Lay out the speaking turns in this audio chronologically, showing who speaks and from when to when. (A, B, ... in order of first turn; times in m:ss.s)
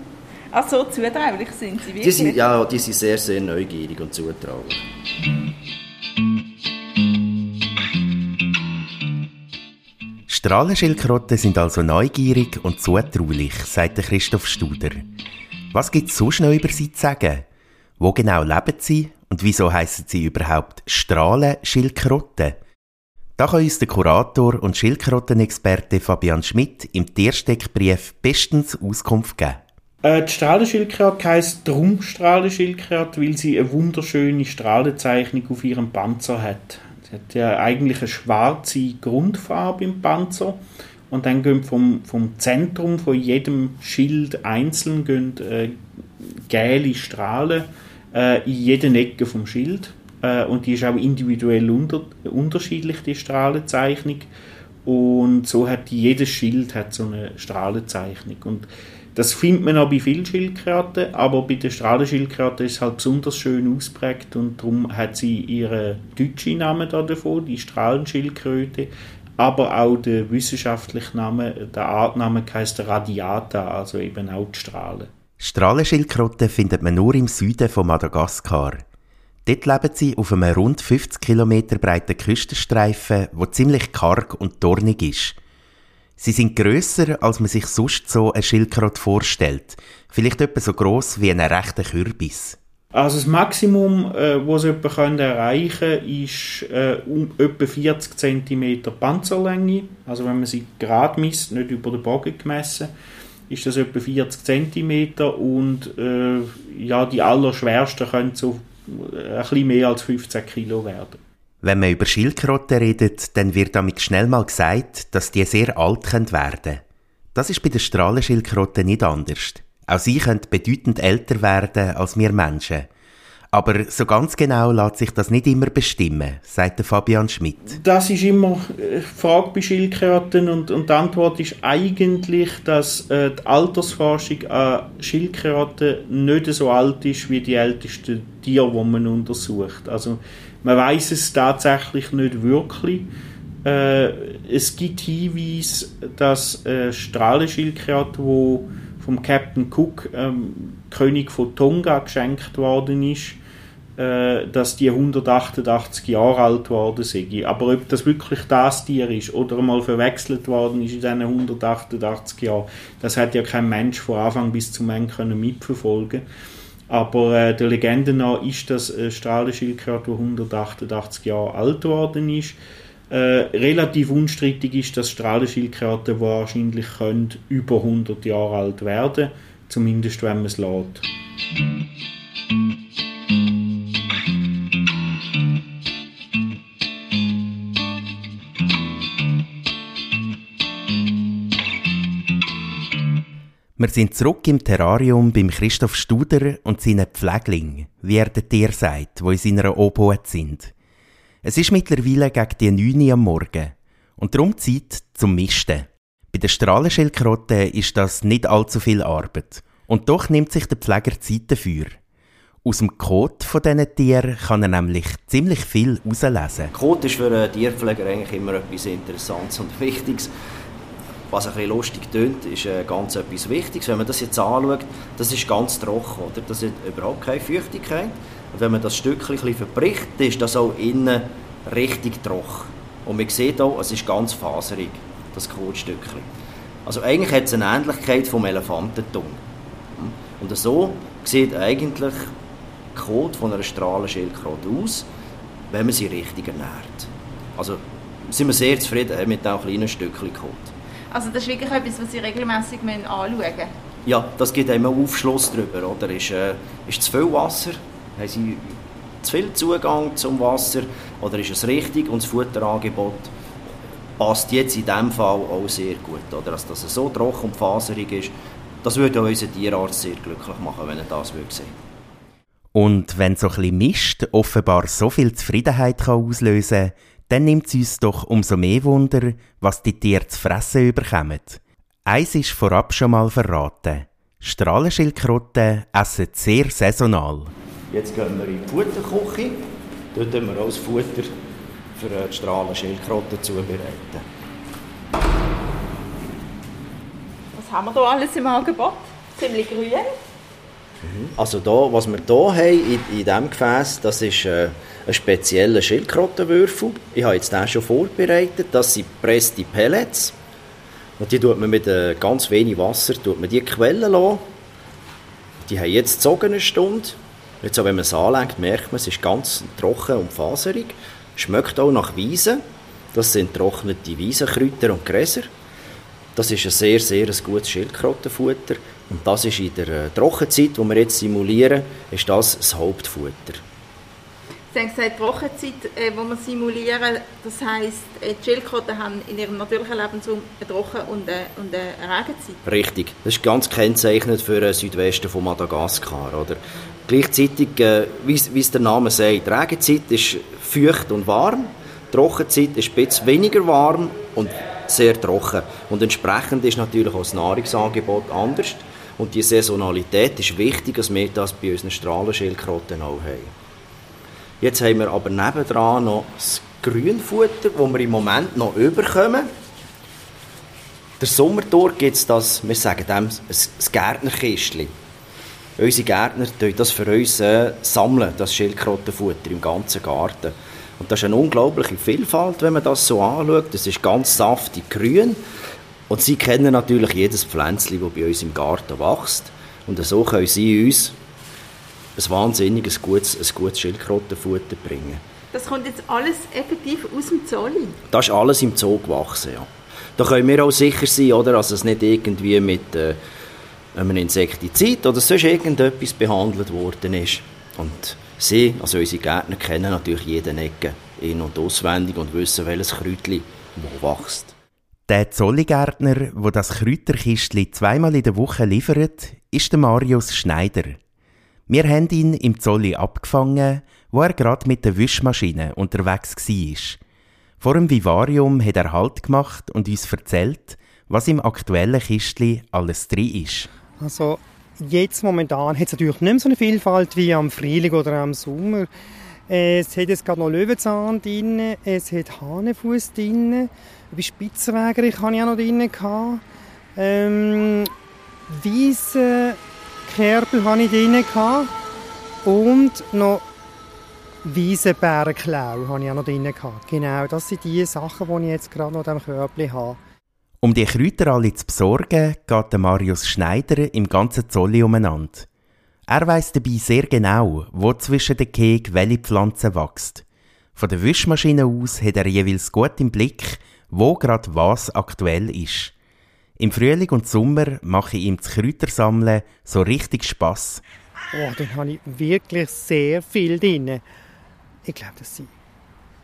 0:00.5-0:02.4 A
0:02.0-0:04.8 B
0:10.3-0:15.0 C
0:15.7-0:17.4 C
0:18.0-0:22.6 C
0:23.4-0:29.6 C
0:30.0-0:54.3 D
0:54.8-1:15.1 D
1:15.4-1:18.8 C
1:19.4-1:25.4 C
1:26.2-1:32.6 C
1:32.9-1:42.9 D
1:43.5-1:51.2 D
1:51.6-1:56.8 C
1:57.3-2:02.9 C
2:03.5-2:07.8 C
2:07.8-2:23.1 D
2:23.6-2:33.4 D
2:34.0-2:46.2 D
2:46.9-2:52.6 D
2:53.1-3:01.0 D
3:13.8-3:20.7 C
3:21.4-3:32.0 C
3:32.6-3:36.7 C
3:36.7-3:40.3 B
3:41.3-3:56.3 B
3:56.8-3:59.4 B
4:00.0-4:02.3 B
4:02.9-4:05.1 B
4:05.7-4:10.7 B
4:11.1-4:13.7 A
4:14.0-4:23.3 B
4:24.2-4:31.7 B
4:32.7-4:47.5 C
4:47.9-4:49.6 B
4:50.1-4:51.3 B
4:52.0-4:54.2 B
4:57.5-5:00.1 A
5:01.0-5:10.3 B
5:11.2-5:14.4 B
5:15.6-5:22.6 B
5:23.1-5:25.5 B
5:26.4-5:33.6 B
5:34.7-5:42.6 A
5:42.6-6:03.5 B
6:04.6-6:09.5 B
6:11.2-6:14.9 B
6:15.8-6:25.4 B
6:26.1-6:31.1 B
6:32.2-6:35.2 B
6:35.5-6:38.0 A
6:38.1-6:43.2 B
6:43.9-6:54.5 B
6:55.1-7:01.0 C
7:01.7-7:07.0 C
7:07.6-7:13.7 C
7:14.0-7:18.9 E
7:19.5-7:26.4 E
7:27.0-7:27.9 E
7:28.5-7:31.7 E
7:32.4-7:33.4 E
7:34.4-7:40.0 E
7:40.6-7:45.5 C
7:46.1-7:50.2 C
7:50.8-7:55.9 C
7:56.6-8:00.8 C
8:01.3-8:04.0 E
8:04.8-8:05.5 E